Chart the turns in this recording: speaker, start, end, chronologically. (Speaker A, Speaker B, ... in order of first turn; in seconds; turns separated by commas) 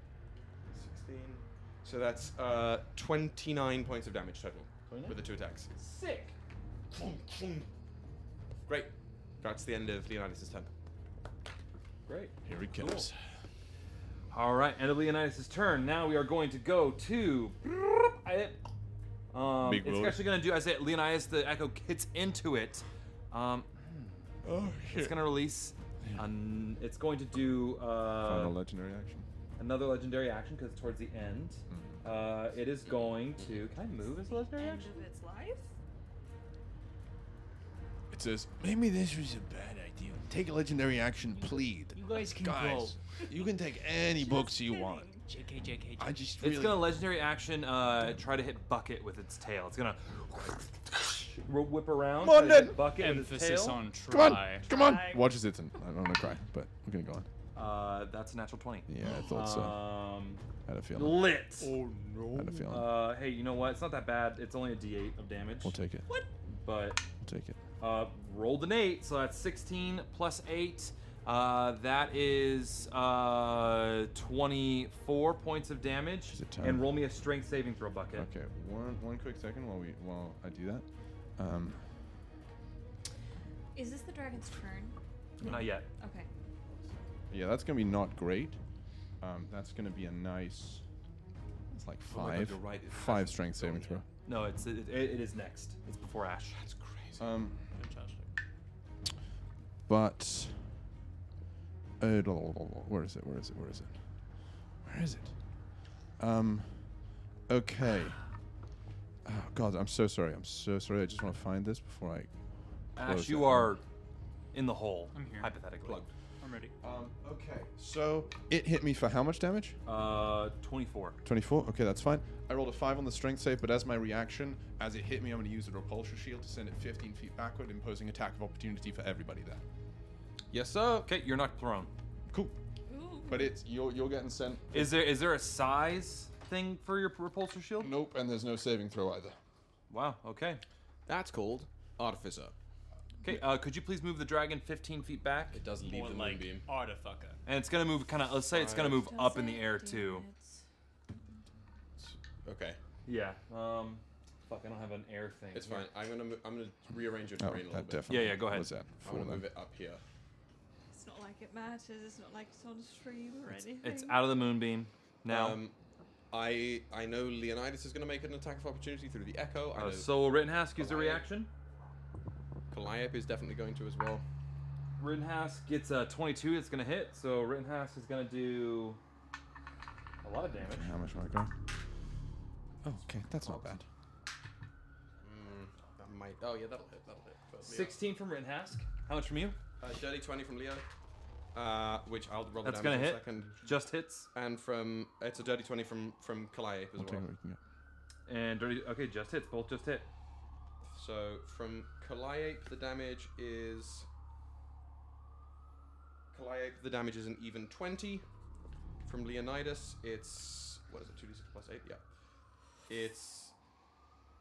Speaker A: 0.7-5.7, Speaker B: 4.9-5.2, Speaker B: 5.8-6.3, Speaker A: 6.9-7.7, Speaker A: 8.7-10.7, Speaker B: 12.1-13.1, Speaker C: 12.4-13.1, Speaker B: 14.3-18.6, Speaker B: 19.3-24.2, Speaker C: 19.6-20.2, Speaker C: 24.4-25.3, Speaker B: 24.9-28.6, Speaker C: 26.0-26.3, Speaker C: 28.2-29.2, Speaker B: 29.6-35.0, Speaker C: 31.7-31.9, Speaker D: 34.1-35.7, Speaker C: 38.1-45.1, Speaker E: 41.3-43.0, Speaker D: 44.0-45.3, Speaker E: 45.3-46.2, Speaker C: 46.0-46.9, Speaker B: 46.4-53.8, Speaker C: 52.2-52.9, Speaker E: 52.9-54.7, Speaker C: 54.1-57.3, Speaker D: 54.6-55.3, Speaker B: 57.5-60.4, Speaker C: 58.9-59.9, Speaker C: 60.6-61.2, Speaker B: 60.9-61.8, Speaker E: 61.6-62.6, Speaker C: 62.3-62.9, Speaker B: 62.6-65.7, Speaker C: 65.6-66.1, Speaker B: 66.6-67.0, Speaker C: 67.2-67.6, Speaker B: 67.8-78.3, Speaker C: 76.3-77.0, Speaker C: 78.1-81.8, Speaker D: 83.7-85.0, Speaker C: 85.4-85.7, Speaker B: 85.4-85.8, Speaker D: 86.0-86.3, Speaker C: 87.3-88.6, Speaker C: 89.2-90.8, Speaker C: 91.7-94.0, Speaker A: 92.1-94.0, Speaker B: 94.2-96.5, Speaker A: 96.5-97.3, Speaker C: 97.2-97.6, Speaker E: 97.7-98.3, Speaker C: 99.9-100.6, Speaker C: 102.0-104.0, Speaker C: 104.8-105.3, Speaker C: 106.2-107.0, Speaker C: 107.5-108.2, Speaker C: 109.2-112.3, Speaker C: 112.9-113.8, Speaker B: 113.0-113.8, Speaker B: 114.5-116.0, Speaker E: 115.1-115.5, Speaker E: 116.4-116.7, Speaker C: 116.8-119.8, Speaker B: 119.8-121.2, Speaker C: 121.2-129.6, Speaker A: 130.5-131.1, Speaker B: 131.1-131.9, Speaker C: 132.3-132.6, Speaker D: 132.9-133.5, Speaker C: 133.2-134.9, Speaker B: 134.7-138.0, Speaker C: 137.8-139.4, Speaker B: 139.9-140.6, Speaker A: 141.1-142.5, Speaker B: 143.2-145.6, Speaker A: 145.5-146.7, Speaker E: 145.7-147.4, Speaker B: 147.4-150.2, Speaker A: 148.5-149.0, Speaker D: 149.0-150.6, Speaker A: 152.0-152.8, Speaker B: 153.1-155.9, Speaker A: 155.5-158.1, Speaker C: 157.4-159.4, Speaker B: 158.1-158.7, Speaker A: 159.0-160.0, Speaker D: 160.9-164.2, Speaker B: 163.8-165.6, Speaker A: 165.3-165.7, Speaker A: 166.3-170.1, Speaker B: 169.7-171.5, Speaker A: 170.7-171.3, Speaker A: 172.7-174.2, Speaker B: 175.0-179.0, Speaker B: 180.2-180.9, Speaker C: 180.6-181.5, Speaker C: 182.8-183.8, Speaker A: 185.2-188.0, Speaker B: 187.6-189.6, Speaker A: 189.8-190.8, Speaker A: 191.5-193.7, Speaker B: 192.6-194.3, Speaker A: 194.3-197.2, Speaker C: 197.0-197.6, Speaker B: 198.3-200.1, Speaker A: 200.9-204.1, Speaker A: 206.3-208.2, Speaker A: 209.0-212.0, Speaker A: 212.9-213.5